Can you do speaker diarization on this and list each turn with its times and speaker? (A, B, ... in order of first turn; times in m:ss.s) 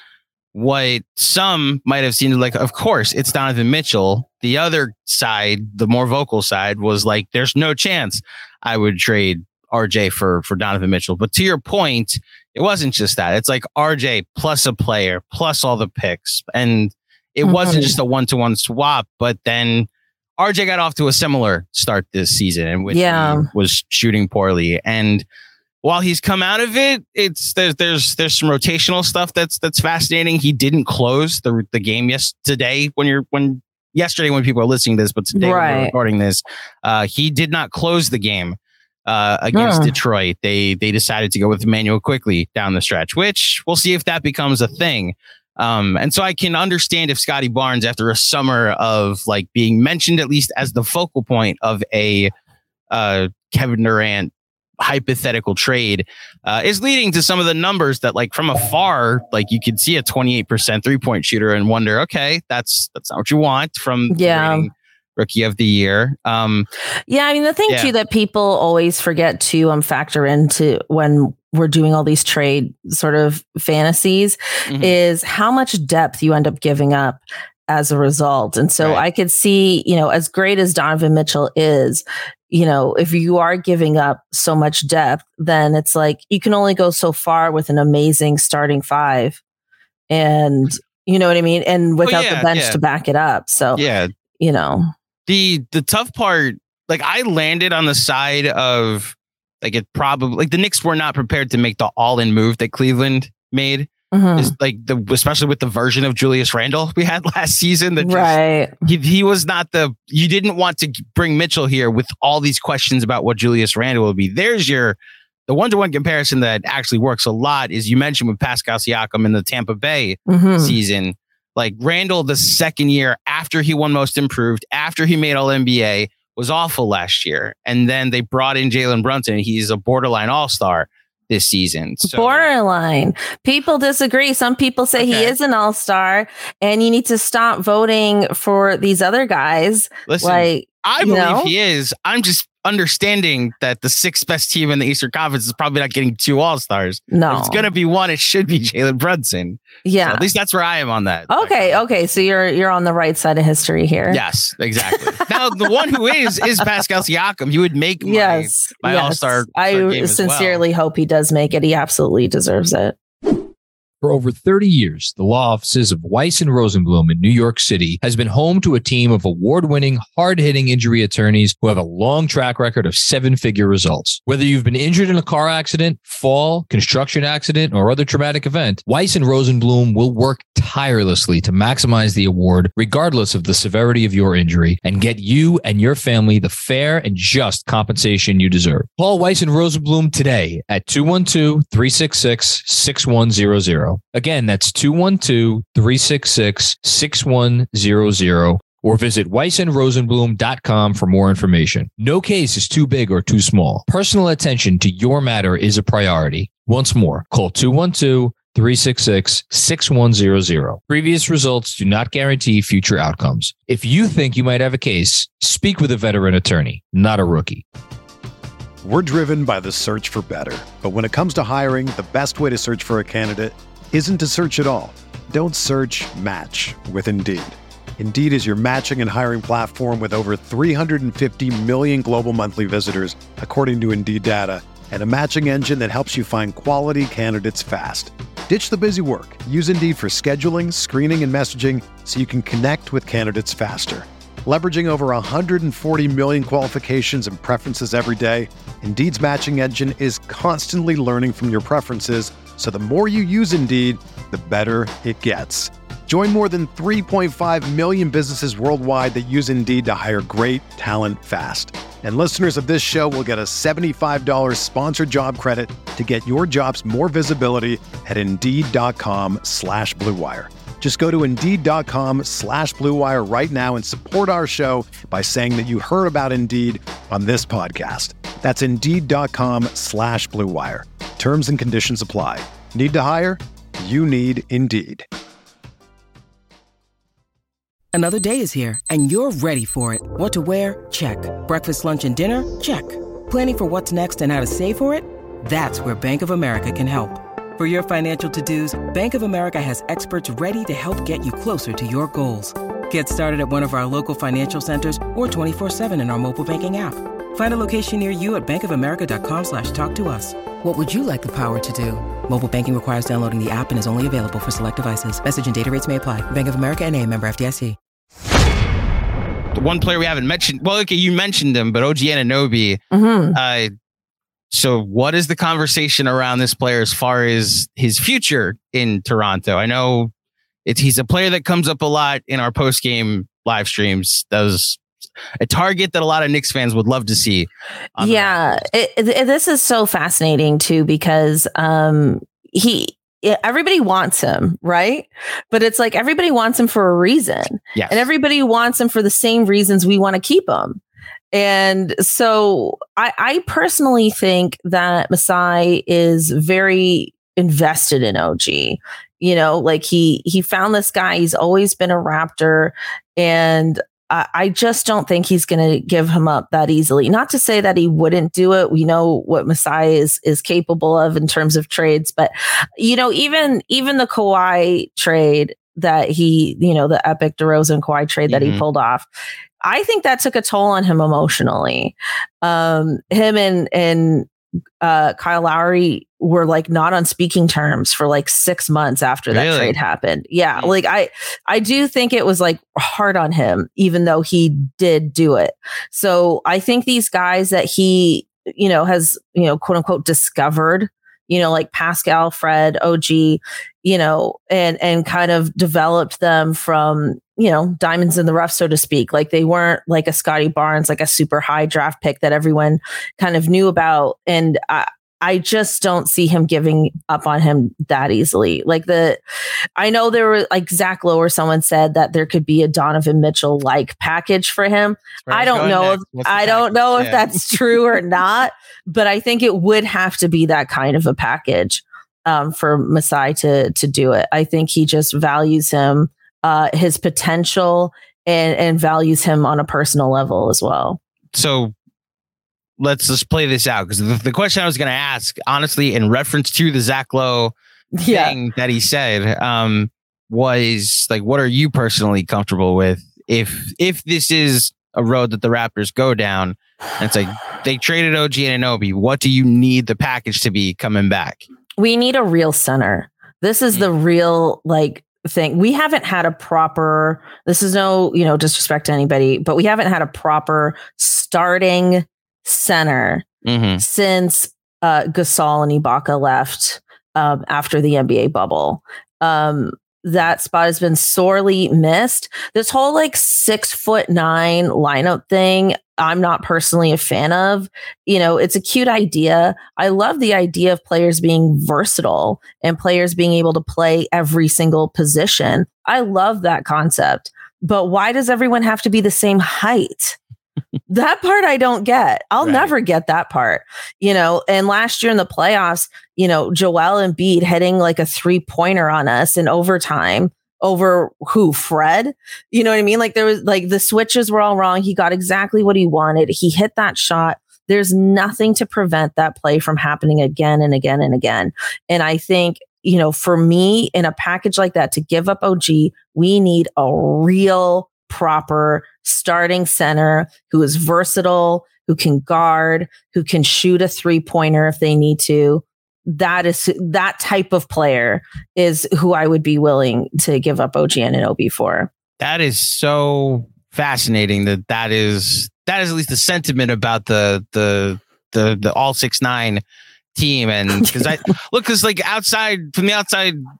0:00.5-0:25.2 A
0:17.4-0:17.9 B
0:22.9-0:23.5 B
0:25.8-0:52.3 A
0:35.3-0:35.9 B
0:39.5-0:39.9 B
0:52.9-1:06.7 A
1:04.1-1:04.7 B
1:07.1-1:29.4 B
1:14.7-1:15.0 A
1:30.1-1:33.8 B
1:32.0-1:32.8 A
1:33.7-1:34.1 A
1:34.4-1:34.9 B
1:35.3-2:12.5 A
1:44.1-1:44.5 B
1:48.0-1:48.7 B
2:00.3-2:00.8 B
2:12.0-2:21.5 B
2:15.0-2:15.3 A
2:20.1-2:31.8 A
2:27.1-2:27.6 B
2:29.8-2:30.2 B
2:31.3-2:34.2 B
2:34.1-2:40.6 A
2:34.9-2:35.3 B
2:38.0-2:43.0 B
2:44.0-3:37.6 C
3:38.8-4:45.1 D
4:47.9-5:17.8 E
5:19.5-5:22.8 A
5:22.9-5:23.4 B
5:23.3-5:23.7 A
5:24.5-5:30.1 A
5:30.6-5:34.8 A
5:35.4-5:38.6 A
5:38.0-5:50.8 B
5:47.7-5:48.0 A
5:51.3-6:19.1 B
6:18.3-6:18.6 A
6:19.6-6:24.3 B
6:24.8-6:59.2 B
6:29.3-6:29.7 A
6:59.8-7:21.0 B
7:05.2-7:07.5 A
7:21.3-7:21.7 A
7:22.8-7:27.5 A
7:28.0-7:28.4 B
7:28.1-7:41.4 A
7:41.8-7:53.2 B
7:53.4-7:53.8 A
7:53.8-8:20.2 B
8:20.9-9:01.9 B
8:22.4-8:22.7 A
9:02.2-9:09.6 A
9:10.2-9:13.4 A
9:10.8-9:11.1 B